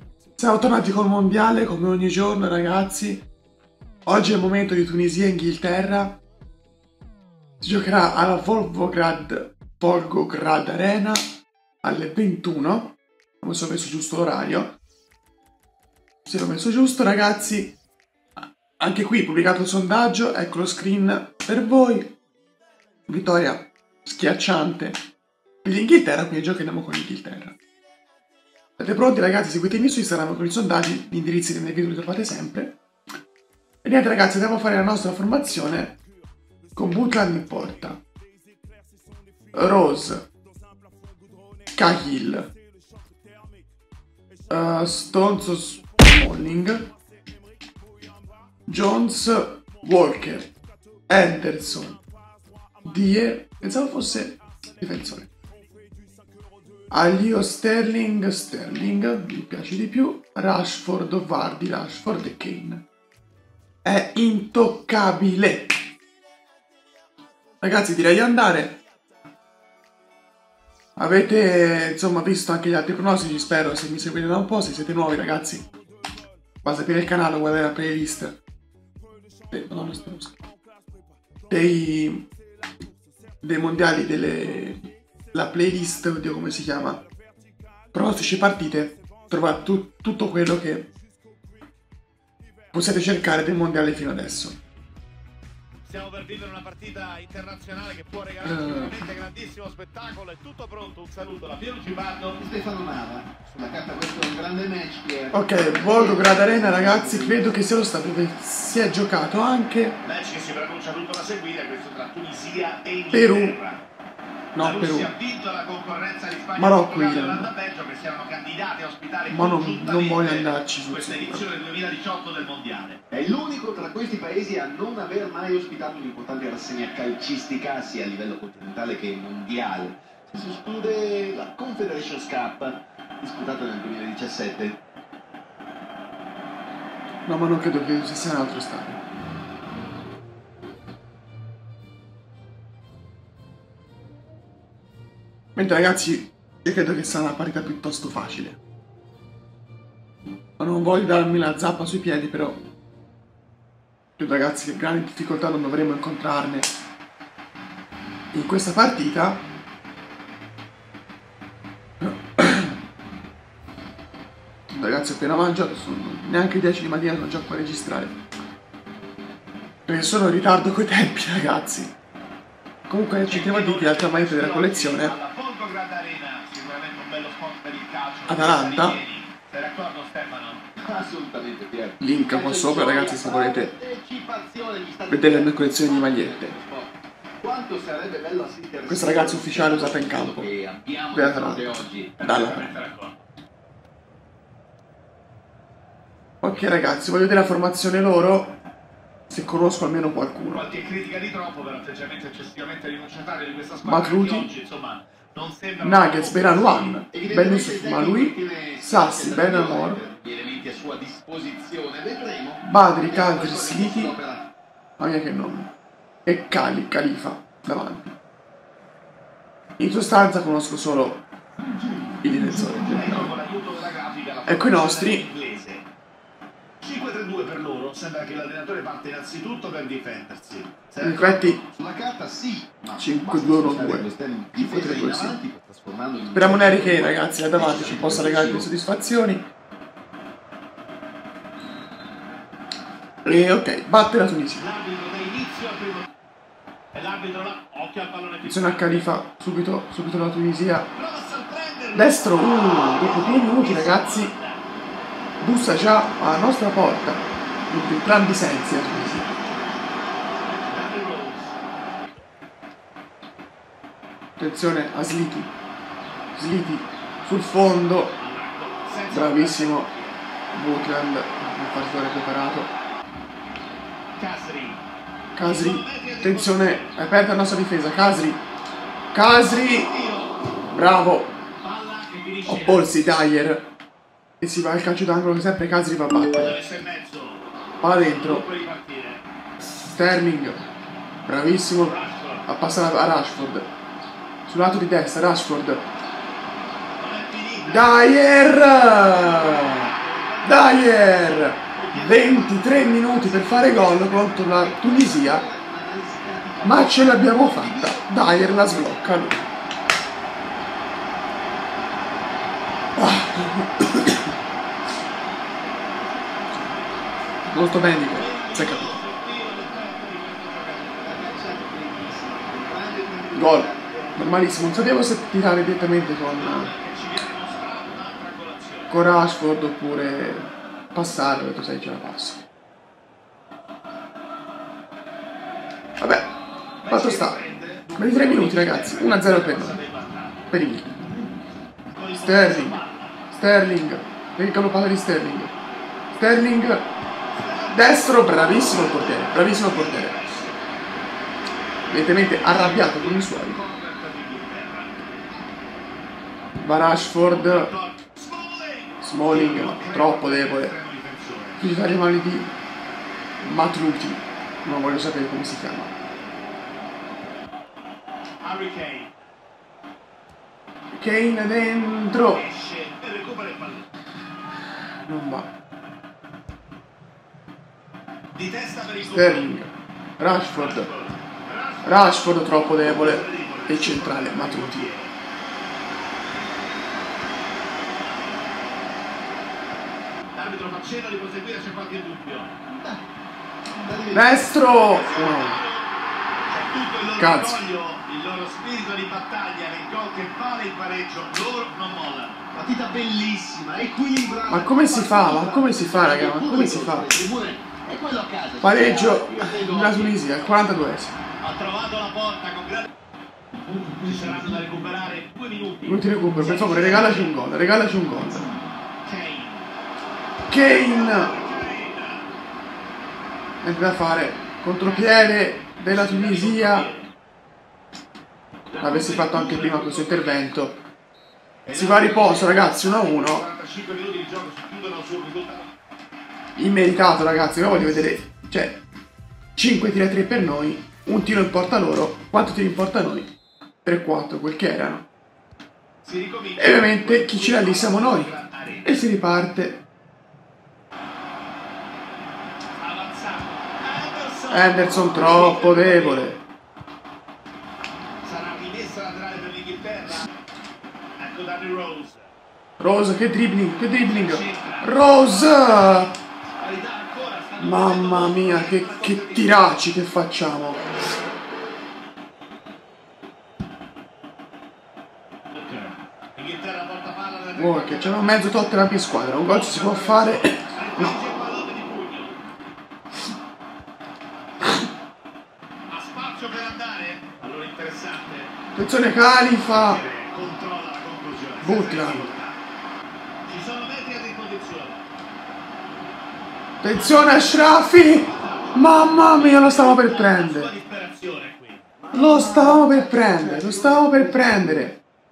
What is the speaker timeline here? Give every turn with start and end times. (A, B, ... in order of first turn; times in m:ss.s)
0:00.4-0:03.3 A
0:04.0-0:06.2 A
0:07.6-0:11.2 A
0:11.8-0:14.8 A
0:16.2-0:17.8 A
0:18.8-0:22.1 A
0:23.1-0:25.0 A
0:25.6-0:27.6 A
0:28.8-0:32.8 A
0:33.8-0:36.0 A
0:36.8-0:38.0 A
0:39.5-0:40.3 A
0:41.8-0:42.5 A
0:44.5-0:46.9 A
0:48.7-0:50.5 A
0:51.1-0:52.0 A
0:52.8-0:55.3 A
0:56.9-1:02.8 A
1:03.8-1:05.9 A
1:07.6-1:08.8 A
1:11.0-1:15.7 A
1:16.6-1:18.4 A
1:19.5-1:20.4 A
1:21.5-1:22.3 A
1:23.4-1:24.8 A
1:25.3-1:27.0 A
1:27.9-1:30.9 A
1:32.7-1:34.6 A
1:35.8-1:42.4 B
1:38.4-1:39.0 A
1:42.4-1:47.7 C
1:45.3-1:50.0 A
1:50.0-1:53.8 B
1:53.1-1:53.6 A
1:54.5-1:55.1 A
1:54.6-2:03.0 B
1:56.6-1:57.5 A
1:59.3-2:01.5 A
2:03.1-2:14.8 C
2:17.3-2:19.0 A
2:25.6-2:28.6 A
2:30.6-2:32.6 A
2:34.2-2:36.7 A
2:38.3-2:39.4 A
2:42.0-2:42.8 A
2:44.7-2:48.2 A
2:49.9-2:51.9 A
2:52.9-2:55.2 A
2:53.3-3:00.7 B
2:58.3-2:59.0 A
3:00.8-3:12.2 C
3:02.0-3:03.7 A
3:05.1-3:06.6 A
3:08.9-3:10.5 A
3:11.1-3:12.7 A
3:12.2-3:13.3 B
3:16.4-3:18.6 A
3:19.3-3:20.7 A
3:20.5-3:27.0 B
3:23.8-3:24.5 A
3:25.8-3:30.0 A
3:27.1-3:34.5 C
3:32.6-3:34.1 A
3:35.0-3:35.7 A
3:36.2-3:38.1 A
3:39.8-3:41.2 A
3:42.2-3:43.4 A
3:42.8-3:45.9 B
3:44.5-3:45.3 A
3:46.8-3:51.6 B
3:51.0-3:51.6 A
3:51.7-3:58.7 C
3:53.0-3:55.4 A
3:56.3-3:59.5 A
4:03.2-4:04.7 A
4:04.6-4:06.1 B
4:06.9-4:09.1 B
4:08.4-4:10.9 A
4:10.9-4:14.6 B
4:12.0-4:14.3 A
4:15.4-4:19.3 A
4:20.4-4:21.6 B
4:24.4-4:25.5 A
4:26.4-4:28.2 A
4:28.2-4:30.2 B
4:29.1-4:29.9 A
4:30.5-4:32.7 A
4:34.2-4:34.8 B
4:35.4-4:38.4 A
4:35.4-4:37.0 B
4:39.1-4:39.9 A
4:39.4-4:40.4 B
4:40.7-4:41.4 A
4:41.6-4:42.9 B
4:42.5-4:43.7 A
4:44.4-4:46.6 A
4:46.3-4:49.2 B
4:47.8-4:48.5 A
4:49.6-4:50.6 A
4:51.2-4:53.7 A
4:51.8-4:52.5 B
4:54.5-4:55.9 A
4:56.9-4:58.2 B
4:57.6-4:59.9 A
4:58.8-5:04.4 B
5:00.4-5:05.5 A
5:02.4-5:02.7 C
5:04.5-5:09.0 C
5:06.6-5:09.4 A
5:13.0-5:14.3 A
5:17.5-5:19.0 A
5:18.1-5:21.2 B
5:21.0-5:24.9 C
5:23.3-5:26.7 A
5:26.3-5:29.0 B
5:28.9-5:32.4 A
5:36.0-5:36.3 A
5:36.8-5:40.6 B
5:36.9-5:37.4 A
5:38.0-5:39.8 A
5:40.5-5:41.1 A
5:41.9-5:43.2 B
5:42.2-5:42.8 A
5:43.3-5:45.5 A
5:46.1-5:46.9 A
5:47.3-5:50.6 B
5:47.7-5:50.2 A
5:51.9-5:53.6 A
5:52.0-5:55.3 B
5:56.6-5:57.7 A
5:57.2-6:01.7 B
5:59.0-6:00.7 A
6:01.6-6:02.5 A
6:03.4-6:05.9 A
6:08.4-6:09.1 B
6:10.9-6:12.4 A
6:12.1-6:13.9 B
6:15.0-6:15.5 A
6:18.4-6:19.5 B
6:19.0-6:20.9 A
6:20.5-6:25.2 B
6:21.8-6:24.9 A
6:30.3-6:32.6 B
6:32.7-6:33.1 C
6:33.7-6:34.7 C
6:34.1-6:35.6 A
6:34.8-6:35.9 B
6:36.5-6:42.4 B
6:37.2-6:37.6 A
6:42.5-6:50.2 C
6:44.5-6:47.2 A
6:48.6-6:51.2 A
6:51.4-6:52.9 B
6:54.0-6:57.4 B
6:55.8-6:58.5 A
6:59.0-6:59.7 B
7:00.5-7:01.4 A
7:00.5-7:02.3 B
7:03.6-7:06.9 A
7:04.8-7:07.1 B
7:08.7-7:10.5 B
7:08.8-7:10.8 A
7:11.7-7:15.7 B
7:11.7-7:13.5 A
7:16.6-7:18.8 A
7:19.6-7:25.1 A
7:26.0-7:29.0 B
7:26.6-7:29.8 A
7:32.8-7:36.4 B
7:34.5-7:36.4 A
7:38.2-7:40.3 B
7:41.2-7:42.3 B
7:42.8-7:46.1 A
7:44.0-7:49.7 B
7:47.6-7:50.8 A
7:55.5-8:02.4 B
7:57.6-8:01.2 A
8:05.9-8:08.5 B
8:08.7-8:10.0 A
8:09.5-8:12.6 B
8:11.6-8:12.3 A
8:13.4-8:15.0 B
8:16.8-8:20.7 A
8:16.9-8:21.9 B
8:22.0-8:24.9 C
8:22.1-8:25.0 A